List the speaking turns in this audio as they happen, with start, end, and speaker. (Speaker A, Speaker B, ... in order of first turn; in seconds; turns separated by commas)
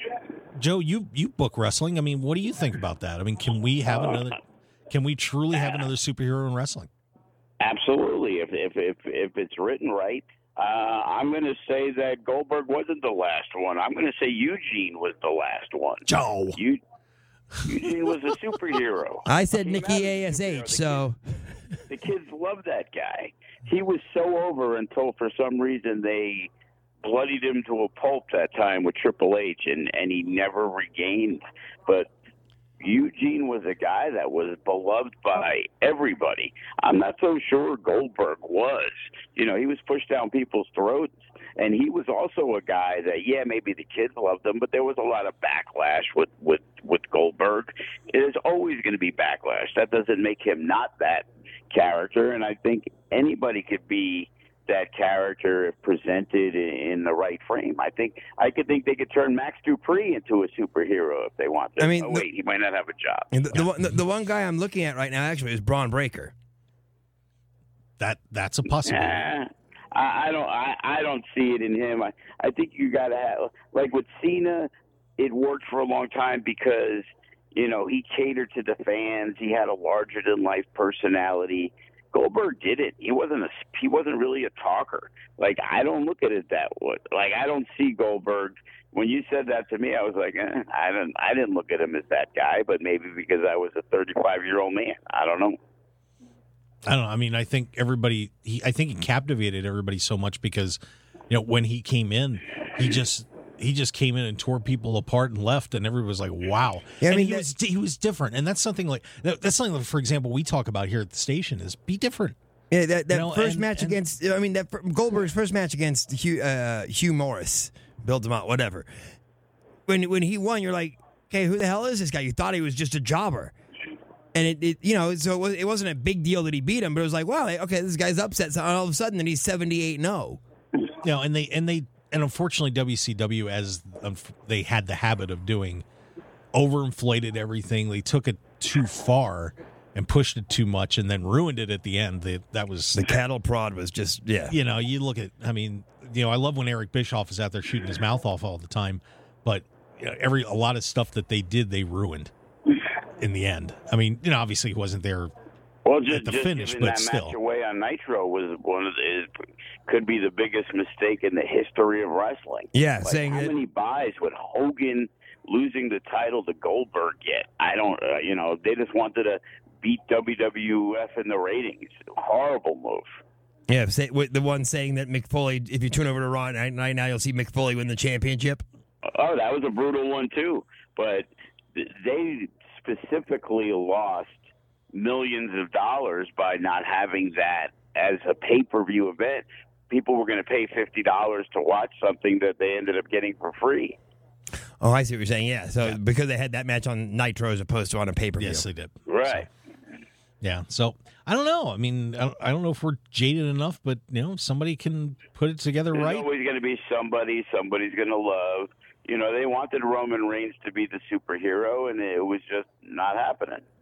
Speaker A: 0.6-6.9, Speaker B: 7.6-16.8, Speaker A: 16.1-16.6, Speaker B: 17.6-21.1, Speaker C: 19.3-21.2, Speaker B: 21.9-26.5, Speaker B: 27.0-32.1, Speaker B: 32.8-63.3, Speaker C: 61.8-62.3, Speaker C: 63.3-66.3, Speaker A: 68.0-69.2, Speaker B: 68.8-95.6, Speaker A: 96.8-100.8, Speaker A: 101.3-112.4, Speaker C: 107.0-107.5, Speaker C: 112.7-118.9, Speaker A: 113.1-114.0, Speaker C: 119.9-123.5, Speaker C: 124.3-130.4, Speaker A: 131.0-135.8, Speaker A: 136.5-143.1, Speaker C: 142.9-144.6, Speaker A: 144.5-152.3, Speaker A: 153.2-155.3, Speaker B: 155.8-159.3, Speaker A: 156.1-157.3, Speaker B: 159.9-173.1, Speaker C: 162.7-163.6, Speaker C: 173.7-178.6, Speaker B: 179.1-184.4, Speaker B: 184.9-194.0, Speaker C: 194.8-198.7, Speaker A: 198.4-199.5, Speaker B: 199.1-199.5, Speaker A: 200.4-206.2, Speaker B: 205.9-213.7